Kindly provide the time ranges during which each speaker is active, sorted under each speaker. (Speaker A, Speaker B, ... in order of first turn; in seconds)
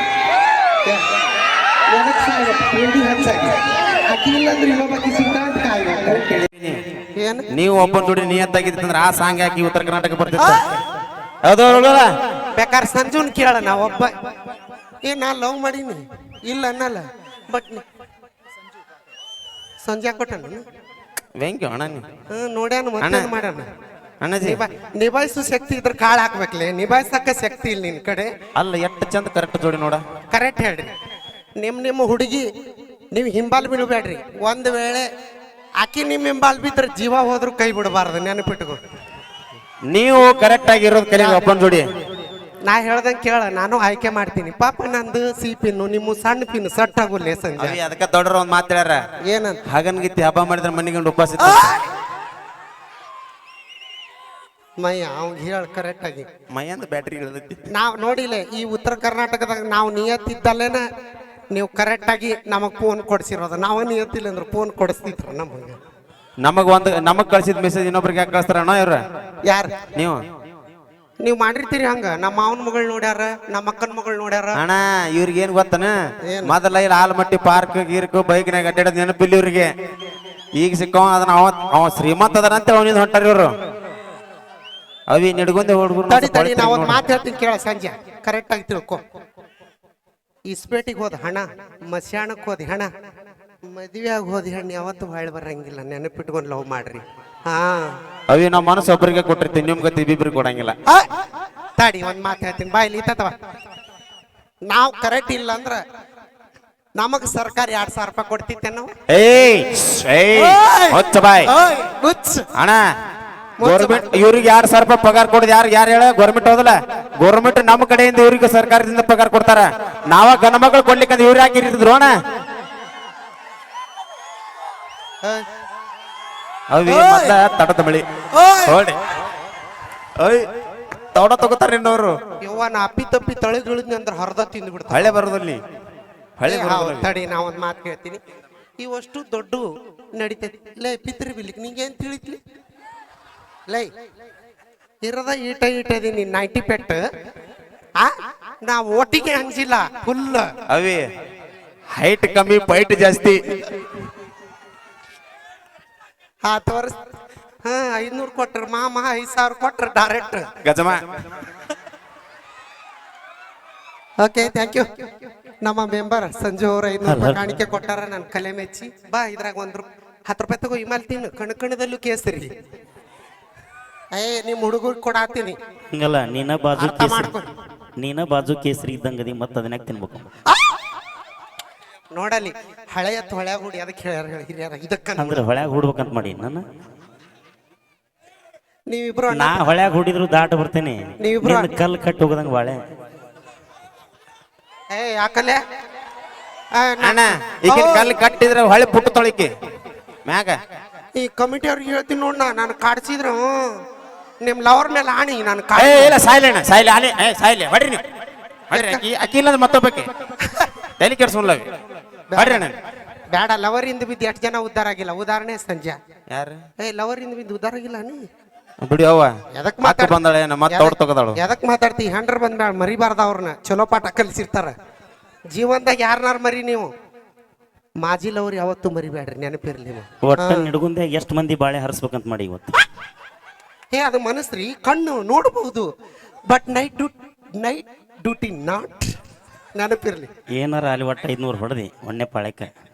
Speaker A: 1.9-6.5, 7.2-7.5, 12.5-14.1, 15.0-17.8, 19.8-20.6, 22.3-23.7, 24.4-28.3, 30.3-30.9, 31.6-32.5, 33.1-35.1, 35.8-38.8, 41.1-41.7, 42.6-47.8, 49.2-49.6, 51.4-51.8, 54.8-56.3, 57.7-60.9, 61.5-65.8, 69.4-69.8, 71.2-74.6, 76.2-76.6, 86.1-89.0, 90.5-92.9, 93.7-97.9, 101.8-103.4, 104.6-105.8, 107.0-108.9, 110.4-112.5, 113.6-114.2, 126.9-127.4, 128.3-128.8, 132.4-135.2, 136.4-138.2, 138.8-142.4, 145.0-147.0, 148.0-150.5, 156.4-156.9, 157.6-160.5, 164.2-165.1, 165.6-172.5, 174.1-175.6, 176.8-177.5, 182.1-185.5, 188.9-189.7, 191.2-191.8, 194.9-195.6, 196.7-198.2, 201.1-203.8, 204.4-206.2, 208.7-209.0, 210.4-210.7, 212.3-212.7, 213.3-216.0, 216.8-218.2, 219.5-224.7, 225.5-226.9, 228.0-230.7, 233.9-235.9, 236.5-239.2, 239.8-240.3
Speaker B: 7.5-10.6, 11.4-12.1, 21.4-22.1, 23.0-23.3, 24.2-24.6, 28.6-30.0, 39.9-41.9, 47.6-49.0, 49.7-51.8, 56.5-57.6, 66.4-69.0, 70.0-70.2, 74.6-79.7, 80.6-83.5, 85.1-87.0, 98.3-100.8, 109.1-111.5, 112.6-112.8, 113.7-122.1, 126.7-128.1, 128.7-129.0, 130.2-130.5, 131.1-132.2, 134.9-135.6, 136.4-137.1, 150.7-151.1, 151.9-153.5, 160.7-161.0, 197.0-199.5, 200.3-200.6, 205.8-208.0, 208.7-210.1, 211.0-211.7, 212.4-212.8, 216.3-216.6, 218.8-221.4
Speaker C: 167.1-167.4, 175.9-177.3, 178.0-180.3, 185.2-186.6, 189.3-192.8, 230.2-232.8, 240.6-242.7